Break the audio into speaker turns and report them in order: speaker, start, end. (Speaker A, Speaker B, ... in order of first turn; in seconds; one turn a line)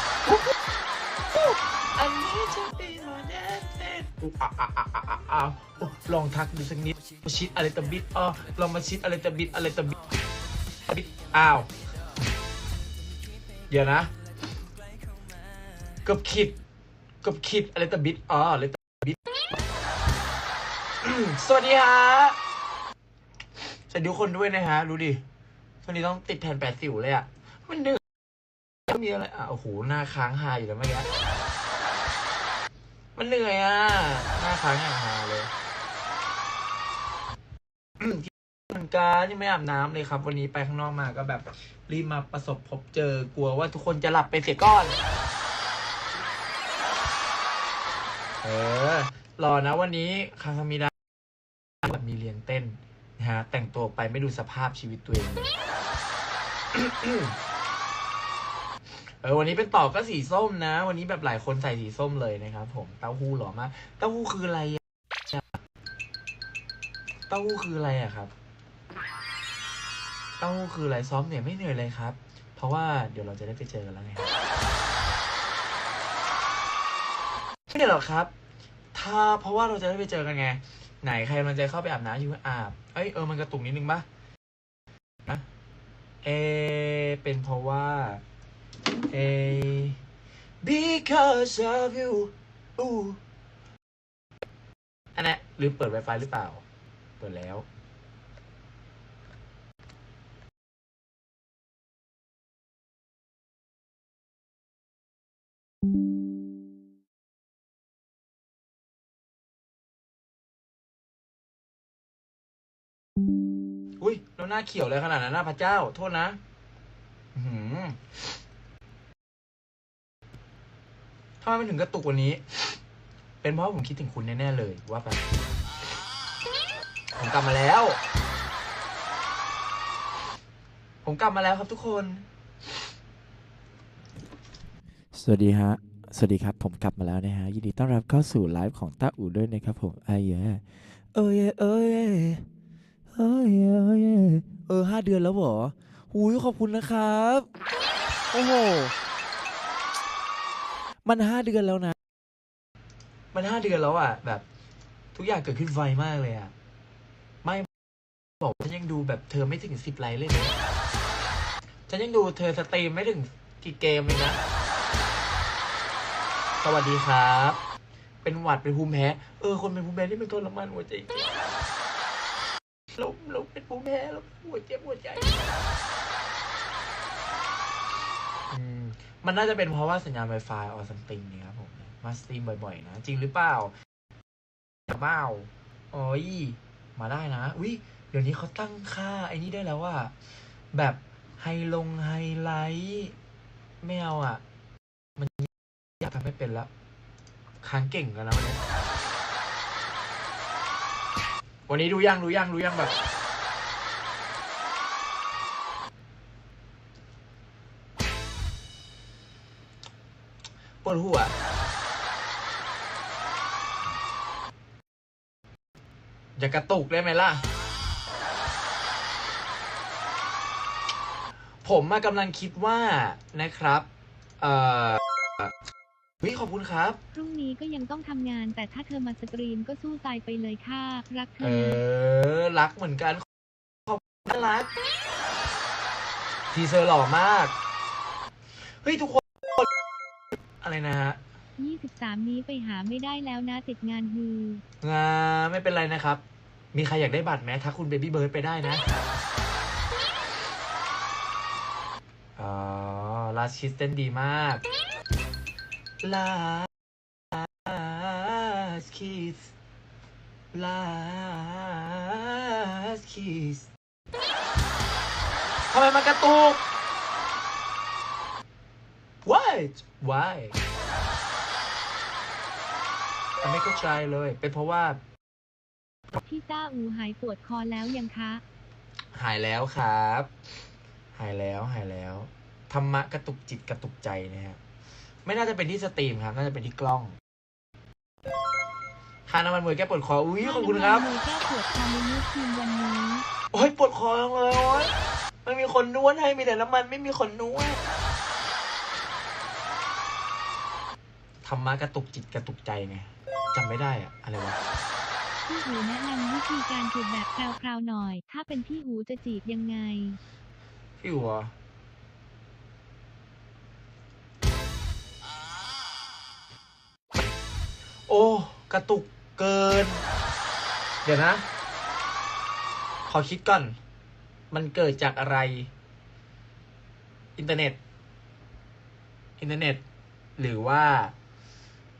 Speaker A: 1.3-10.0
Speaker A: 10.9-11.7
Speaker A: 13.7-14.1
Speaker A: 16.0-16.5
Speaker A: 17.2-19.2
Speaker A: 21.0-22.4
Speaker A: 23.9-25.2
Speaker A: 25.8-28.0
Speaker A: 28.9-31.1
Speaker A: 33.1-35.5
Speaker A: 38.0-45.0
Speaker A: 48.4-50.9
Speaker A: 51.8-55.5
Speaker A: 56.7-57.4
Speaker A: 58.9-65.6
Speaker A: 67.3-68.3
Speaker A: 70.4-74.3
Speaker A: 77.7-78.3
Speaker A: 78.9-84.0
Speaker A: 86.2-88.2
Speaker A: 89.1-90.0
Speaker A: 90.6-93.2
Speaker A: 95.1-96.6
Speaker A: 97.2-97.7
Speaker A: 114.0-116.4
Speaker A: 117.3-118.1
Speaker A: 121.4-122.8
Speaker A: 123.4-125.2
Speaker A: 127.1-128.0
Speaker A: 131.0-132.2
Speaker B: 135.1-142.4
Speaker B: 143.1-147.5
Speaker B: 148.3-148.9
Speaker B: 151.0-151.9
Speaker A: 153.3-154.4
Speaker A: 155.1-156.5
Speaker A: 158.4-160.6
Speaker A: 161.9-164.4
Speaker A: 166.6-167.6
Speaker A: 168.2-171.4
Speaker A: 172.9-175.5
Speaker A: 178.5-183.7
Speaker A: 184.9-190.1
Speaker A: 190.7-193.1
Speaker A: 193.8-194.4
Speaker A: 195.2-196.7
Speaker A: 197.6-198.6
Speaker A: 201.7-202.9
Speaker A: 210.8-211.3
Speaker A: 216.4-217.4
Speaker A: 221.6-223.9
Speaker A: 224.4-225.5
Speaker A: 226.2-227.0
Speaker C: 227.1-231.8
Speaker A: 231.4-233.2
Speaker A: 233.9-234.7
Speaker A: 236.5-237.5
Speaker A: 238.8-239.6
Speaker A: 240.6-241.2
Speaker C: 241.6-244.6
Speaker A: 244.8-248.8
Speaker A: 252.3-254.6
Speaker A: 256.0-256.7
Speaker A: 257.3-259.5
Speaker A: 260.5-263.7
Speaker A: 265.7-266.6
Speaker A: 269.2-270.6
Speaker A: 273.4-275.0
Speaker C: 276.2-278.4
Speaker A: 279.1-280.3
Speaker A: 281.1-284.6
Speaker A: 285.2-287.1
Speaker A: 289.3-291.1
Speaker C: 290.4-293.2
Speaker A: 293.5-297.8
Speaker A: 301.4-304.6
Speaker C: 305.4-310.2
Speaker A: 311.0-311.5
Speaker A: 318.1-320.0
Speaker A: 321.0-321.4
Speaker A: 323.1-323.8
Speaker A: 324.5-325.7
Speaker A: 327.4-327.8
Speaker A: 329.4-329.8
Speaker A: 330.4-331.1